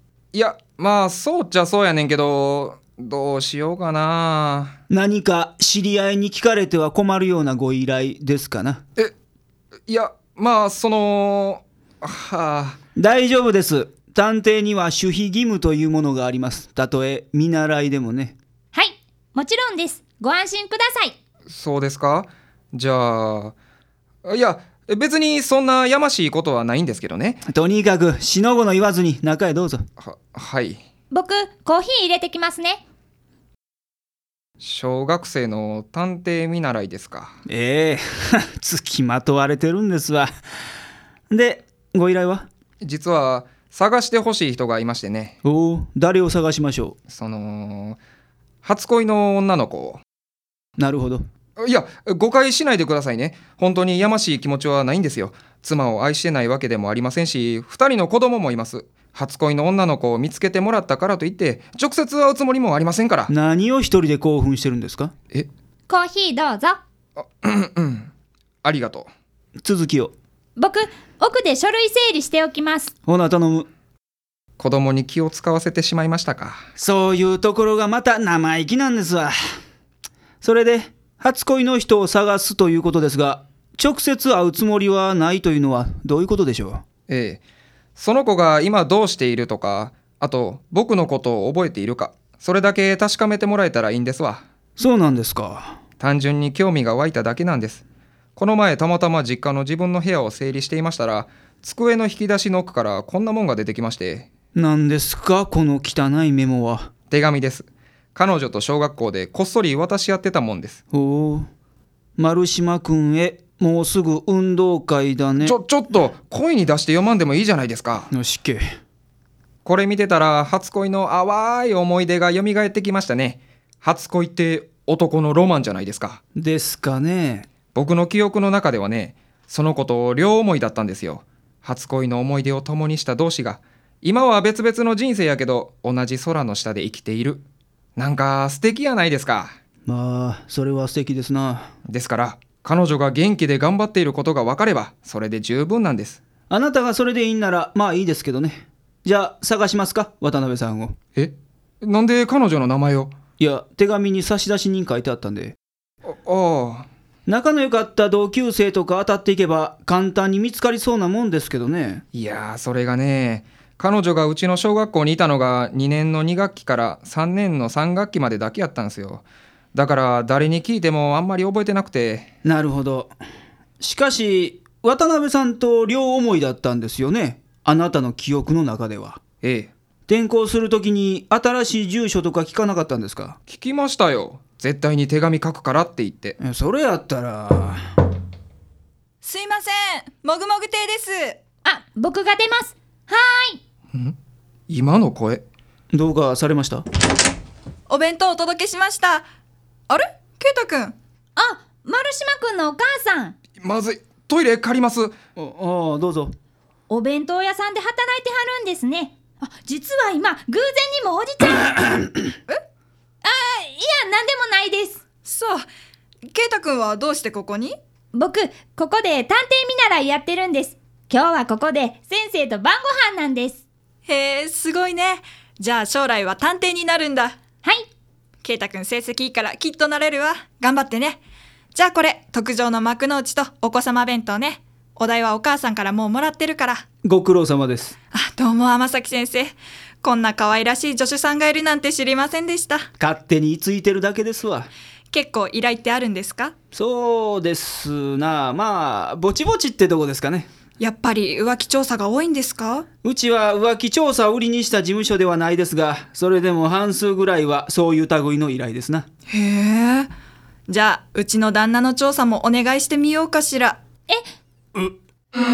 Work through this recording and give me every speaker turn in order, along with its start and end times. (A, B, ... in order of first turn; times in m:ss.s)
0:00.3-0:04.8 A
0:04.9-0:08.8 B
0:09.9-0:12.8 A
0:13.0-0:18.4 B
0:18.7-0:21.1 C
0:21.5-0:23.5 A
0:24.2-0:27.4 A
0:27.5-0:29.8 B
0:30.0-0:30.8 A
0:31.1-0:32.8 C
0:34.6-0:37.4 A
0:37.5-0:40.3 B
0:41.3-0:42.5 B
0:42.8-0:45.4 A
0:45.4-0:47.0 B
0:47.1-0:48.0 A
0:48.6-0:50.0 A
0:50.8-0:51.2 B
0:51.6-1:03.3 A
1:03.3-1:05.1 B
1:05.9-1:06.8 C
1:07.2-1:08.1 A
1:08.6-1:09.1 A
1:09.6-1:10.1 B
1:10.6-1:12.9 C
1:13.1-1:13.7 B
1:14.6-1:16.6 A
1:16.8-1:19.3 B
1:20.4-1:26.8 B
1:27.1-1:27.4 A
1:28.0-1:34.4 A
1:34.8-1:35.8 B
1:36.0-1:37.8 A
1:38.4-1:44.3 A
1:44.5-1:46.9 B
1:47.1-1:50.8 A
1:50.9-1:51.5 B
1:52.2-1:55.6 B
1:55.4-1:58.1 A
1:58.1-1:58.6 B
1:59.6-2:06.2 A
2:06.3-2:07.5 B
2:07.7-2:17.4 A
2:18.0-2:19.6 A
2:19.9-2:21.7 B
2:21.8-2:26.2 A
2:26.5-2:31.0 B
2:31.1-2:33.1 A
2:33.4-2:35.5 B
2:36.0-2:36.9 A
2:37.2-2:42.0 B
2:42.1-2:52.3 A
2:52.4-2:53.1 B
2:53.8-2:59.2 B
2:59.4-2:59.7 A
3:00.1-3:03.4 B
3:03.5-3:06.4 A
3:06.4-3:07.8 B
3:09.2-3:11.4 D
3:11.6-3:13.6 C
3:14.7-3:15.4 A
3:15.9-3:16.8 B
3:17.9-3:19.2 D
3:19.9-3:21.0 D
3:21.4-3:23.3 C
3:23.6-3:25.1 A
3:25.4-3:26.3 B
3:26.9-3:32.0 C
3:33.2-3:35.0 C
3:35.2-3:35.7 D
3:36.3-3:37.8 D
3:38.1-3:43.6 C
3:44.0-3:47.4 D
3:48.4-3:51.2 D
3:51.7-3:56.8 D
3:57.0-3:57.9 B
3:58.1-4:02.9 D
4:03.0-4:04.7 B
4:05.1-4:06.5 D
4:06.7-4:10.5 B
4:10.8-4:12.8 D
4:13.0-4:19.1 B
4:19.3-4:20.1 D
4:20.7-4:23.8 D